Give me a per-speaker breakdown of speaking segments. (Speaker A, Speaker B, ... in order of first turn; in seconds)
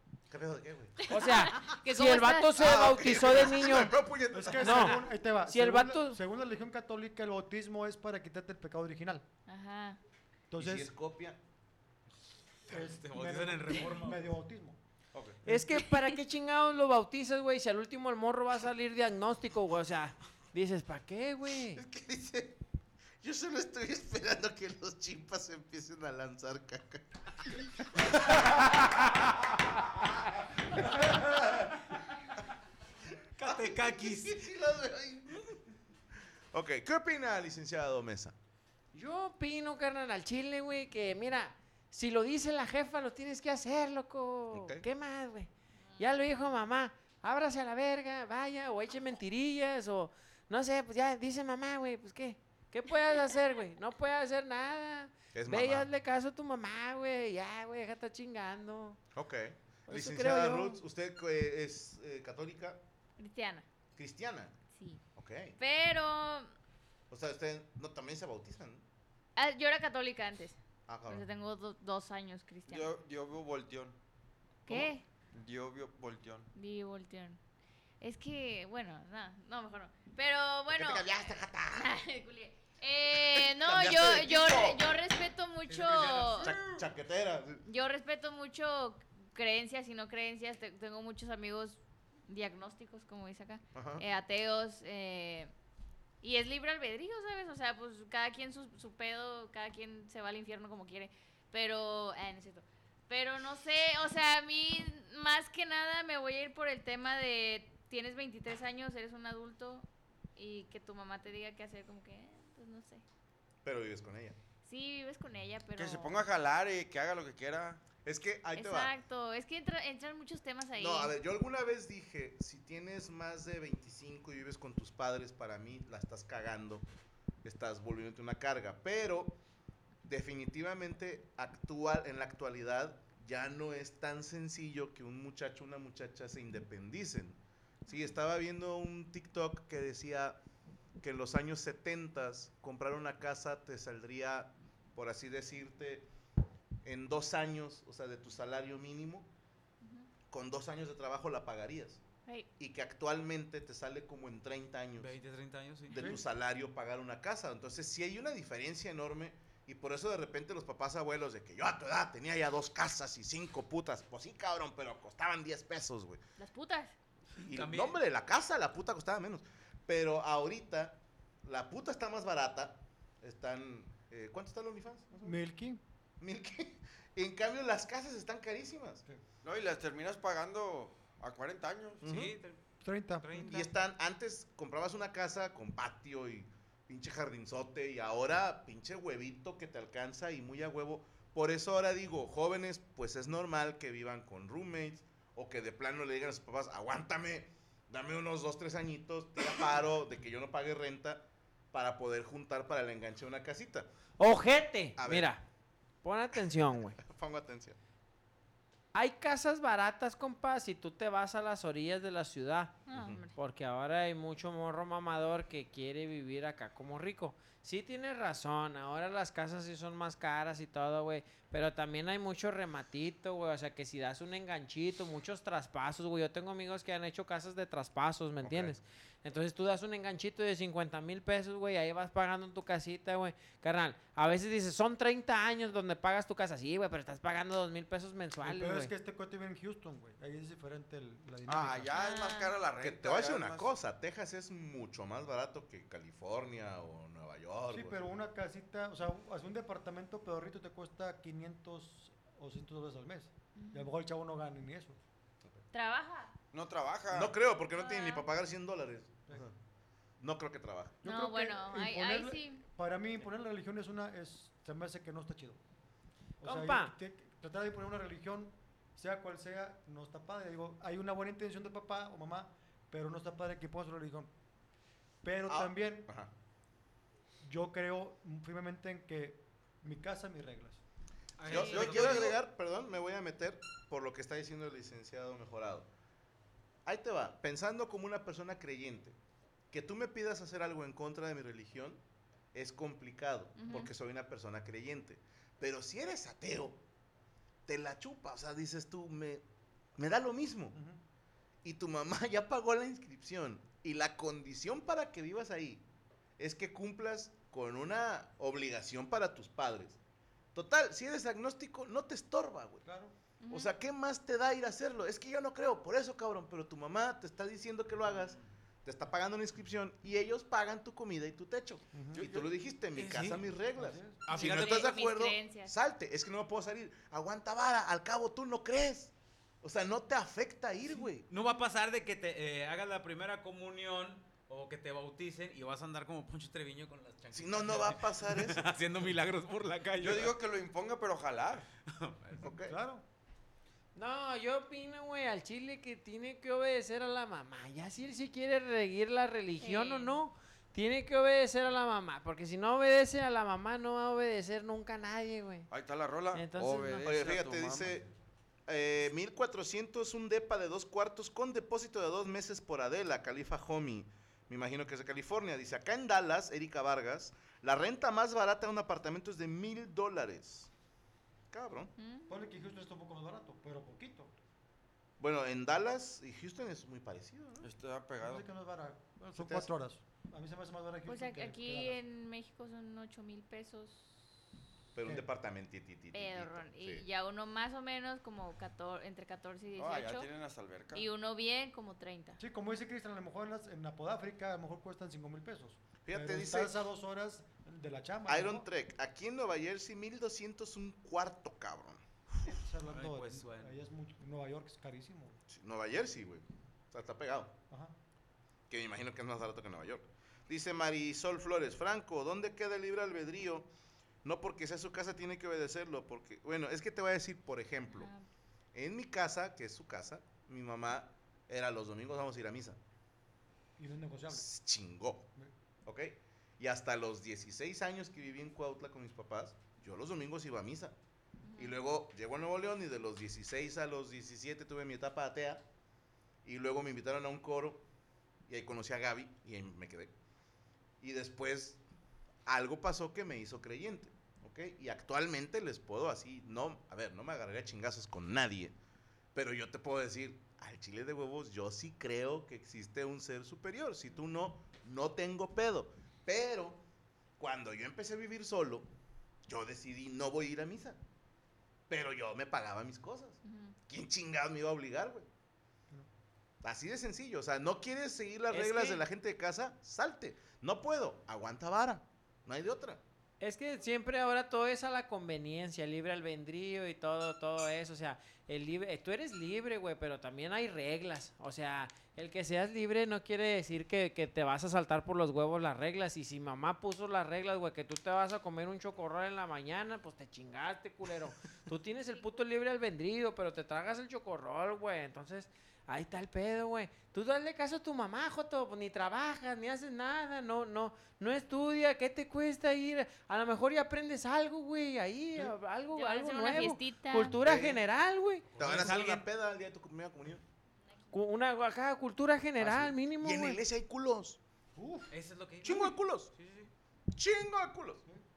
Speaker A: 0.3-1.1, 2.6-5.1, 10.6-11.4, 15.1-15.4, 21.8-22.6, 23.2-27.1, 28.3-28.8, 30.9-31.7, 33.4-35.6, 36.5-38.3, 44.5-44.9, 55.3-55.9, 59.1-62.8, 64.0-64.5, 65.2-65.6, 67.1-68.8, 70.9-71.3, 80.7-82.0, 83.1-84.9, 86.4-87.6, 93.8-94.0, 113.7-114.4, 118.0-118.9, 120.8-126.8, 127.4-129.4, 130.1-140.4, 141.0-146.1, 146.8-149.3, 150.3-152.0, 152.6-155.2, 155.9-166.2, 167.4-175.4, 176.2-179.0, 182.0-182.4, 183.4-203.9, 205.0-205.3, 207.0-207.8, 212.9-213.2, 228.4-228.8, 242.7-248.2, 257.1-259.5, 260.2-261.0, 275.5-276.3, 281.5-285.9, 286.9-289.2, 289.7-292.0, 292.5-296.8, 297.7-299.4, 300.0-300.8, 301.6-305.8, 306.4-310.0, 310.5-312.8, 313.5-331.3, 337.3-338.7, 342.4-342.8, 357.1-358.1, 358.7-370.7, 371.5-371.9, 375.2-377.7, 379.3-379.7, 384.9-387.1, 396.0-396.7, 398.3-402.0, 405.5-407.6, 408.7-413.7, 414.2-418.1, 418.7-422.8, 424.3-425.3, 425.9-430.9, 431.6-435.6, 436.4-437.9, 438.5-440.1, 441.0-441.8, 442.5-448.8, 449.3-456.8, 457.4-458.9, 459.5-461.0, 461.9-465.3, 466.6-473.0, 507.4-507.8, 508.6-510.4, 512.6-514.4, 515.6-516.3, 517.1-518.0
Speaker B: 1.1-2.5, 9.5-10.0, 45.9-46.3, 63.2-63.6, 64.8-65.0, 65.6-66.5, 69.4-72.9, 74.7-75.0, 76.5-77.4, 78.0-86.5, 87.7-95.5, 96.2-113.0, 114.7-116.3, 118.5-121.2, 149.8-150.1, 166.4-166.9, 212.9-213.3, 241.9-242.6, 253.6-253.9, 255.7-256.3, 257.8-258.3, 261.1-262.6, 293.6-293.9, 313.4-313.7, 324.4-325.7, 349.6-350.2, 372.0-372.5, 381.1-384.4, 386.1-390.3, 390.9-392.4, 417.9-418.2, 431.4-431.8, 463.4-463.8, 505.9-507.4
Speaker C: 1.1-3.9, 4.6-6.2, 15.5-21.8, 38.9-59.0, 59.9-60.8, 204.2-205.4, 206.0-207.0, 208.9-212.8, 213.4-238.9, 266.4-266.9, 343.9-355.7, 356.3-357.1, 468.5-469.0, 473.4-508.5, 511.1-513.6
Speaker D: 4.3-9.2, 10.5-10.9, 12.7-14.8, 156.0-156.2, 175.2-175.8, 182.8-183.5, 238.4-242.0, 247.7-255.0, 261.0-265.6, 266.4-274.3, 275.2-276.1, 277.4-280.8, 300.7-301.0, 312.8-313.1, 321.9-322.2, 323.7-324.3, 342.7-343.0, 372.3-374.3, 378.2-382.0, 385.0-385.3, 392.4-398.7, 402.4-405.4, 407.7-407.9, 423.8-424.5, 514.8-515.1
Speaker E: 12.7-14.3, 33.4-34.4, 85.7-86.8, 155.0-156.2, 167.4-168.0, 182.1-183.8, 281.4-282.4, 322.9-323.6, 324.2-325.1, 331.3-340.3, 341.9-342.5, 402.8-403.8, 508.5-509.3, 515.1-516.7
Speaker F: 72.7-74.0, 75.3-76.5, 115.8-117.8, 179.4-182.0, 241.5-243.7, 256.5-257.3, 281.5-282.4, 322.1-322.5, 340.0-341.7, 355.7-358.0, 377.6-378.5, 389.7-391.1